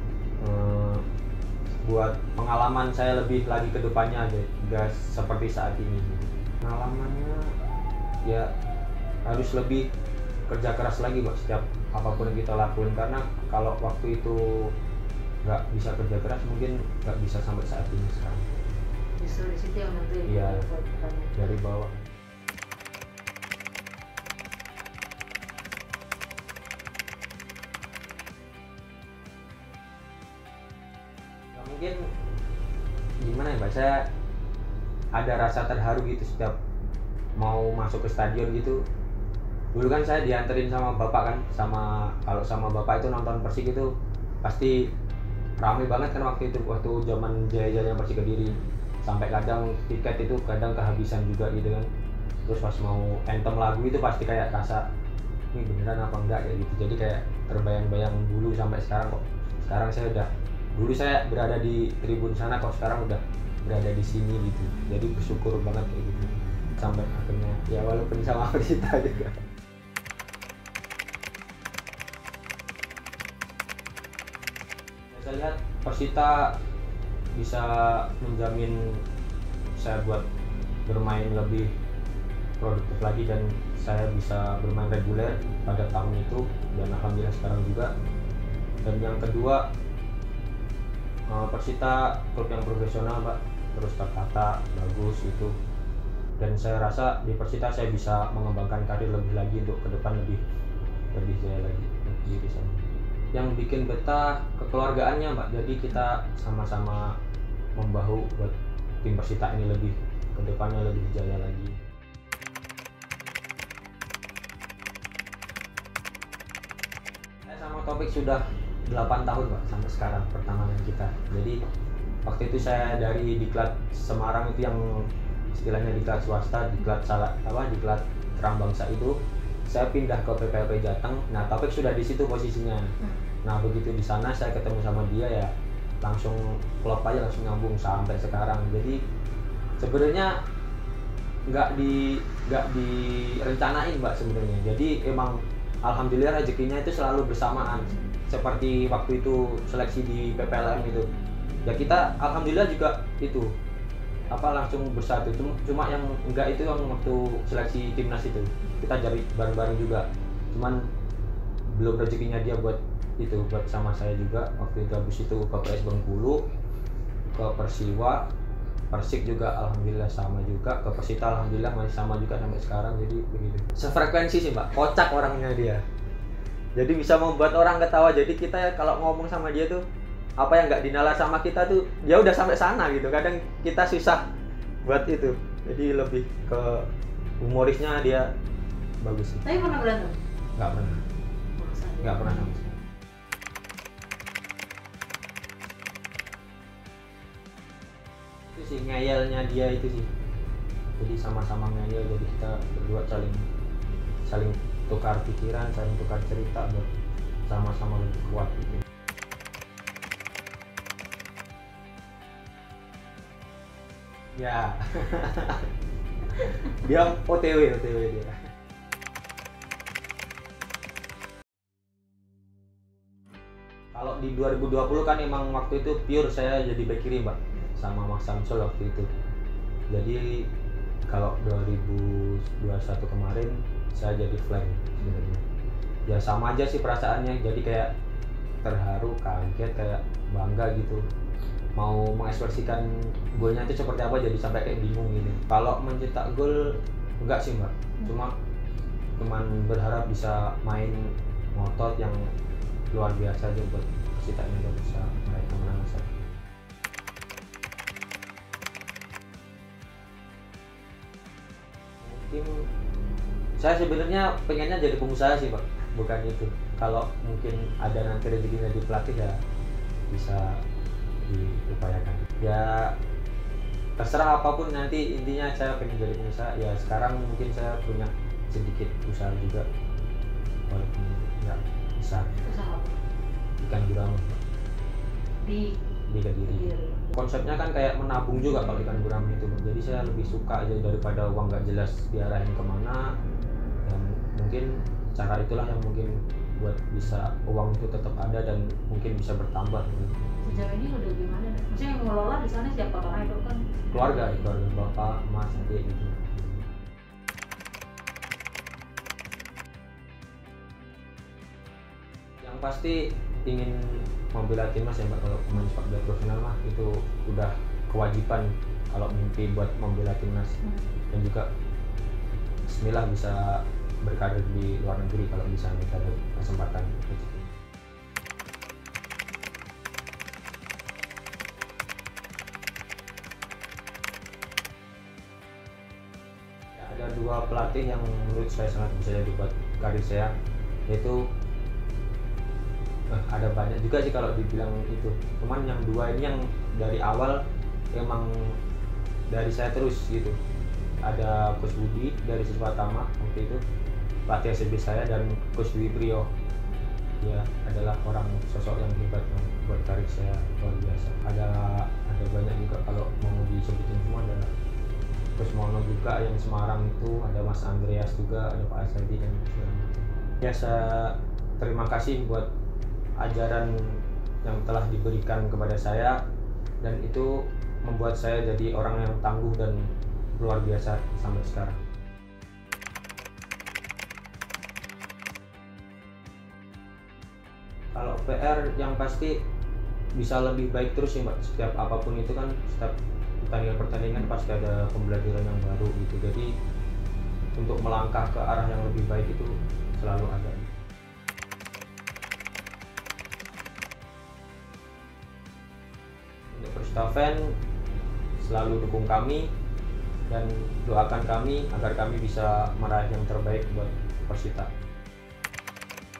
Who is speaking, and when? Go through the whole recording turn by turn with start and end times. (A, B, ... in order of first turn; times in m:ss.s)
0:00.4-0:01.0 A
0:01.8-0:07.4 A
0:09.3-0:09.9 A
0:10.5-0:14.4 A
0:15.4-0:18.5 A
0:19.2-0:21.4 B
0:20.3-0:20.6 A
0:21.3-0:22.1 A
0:31.5-0:32.0 A
0:33.2-0:34.1 A
0:35.2-0:36.6 A
0:37.4-0:38.8 A
0:39.7-0:43.9 A
0:44.4-0:44.9 A
0:45.6-0:51.9 A
0:52.5-0:54.8 A
0:55.5-1:09.4 A
1:15.1-1:16.5 A
1:17.4-1:19.0 A
1:19.7-1:20.2 A
1:20.9-1:21.7 A
1:22.6-1:27.9 A
1:28.8-1:29.7 A
1:31.3-1:35.6 A
1:36.4-1:40.4 A
1:41.1-1:47.1 A
1:47.8-1:51.8 A
1:57.5-2:01.6 A
2:02.3-2:12.9 A
2:13.0-2:13.3 B
2:13.4-2:15.5 A
2:16.0-2:19.0 A
2:19.8-2:20.4 A
2:21.5-2:31.1 A
2:31.7-2:33.5 A
2:34.3-2:40.8 A
2:41.7-2:46.4 A
2:47.3-2:48.2 A
2:48.9-2:55.8 A
2:56.8-2:59.8 A
3:00.4-3:04.2 A
3:04.8-3:06.9 A
3:07.4-3:08.3 A
3:09.0-3:09.5 A
3:09.4-3:10.2 B
3:10.6-3:11.0 A
3:11.6-3:12.6 B
3:12.0-3:12.8 A
3:18.5-3:20.1 A
3:21.0-3:23.4 A
3:24.3-3:26.9 A
3:27.5-3:28.8 A
3:34.4-3:35.7 A
3:36.3-3:38.4 A
3:43.9-3:49.1 A
3:49.9-3:50.5 A
3:51.1-3:55.4 A
3:56.1-3:57.9 A
3:58.6-4:01.0 A
4:01.8-4:08.4 A
4:09.2-4:12.3 A
4:12.9-4:16.1 A
4:22.0-4:22.6 A
4:23.6-4:29.4 A
4:30.1-4:30.6 A
4:31.3-4:33.0 A
4:34.0-4:39.7 A
4:40.7-4:42.4 A
4:42.4-4:43.0 B
4:43.6-4:44.4 A
4:45.4-4:45.7 B
4:46.1-4:53.1 A
4:46.4-4:47.2 B
4:53.9-5:00.2 A
5:00.4-5:03.6 B
5:03.9-5:06.7 A
5:12.4-5:20.6 A
5:20.6-5:20.9 B
5:21.1-5:21.5 A
5:22.7-5:27.6 A
5:36.8-5:40.3 A
5:40.9-5:41.2 A
5:43.1-5:47.4 A
5:47.9-5:48.5 A
5:49.3-5:50.4 A
5:51.0-5:53.6 A
5:54.3-5:56.3 A
5:57.2-6:04.5 A
6:05.4-6:12.5 A
6:13.2-6:16.2 A
6:16.8-6:19.9 A
6:20.4-6:21.8 A
6:27.9-6:29.4 A
6:30.2-6:36.5 A
6:37.6-6:40.7 A
6:46.5-6:47.6 A
6:48.4-6:49.5 A
6:50.3-6:54.7 A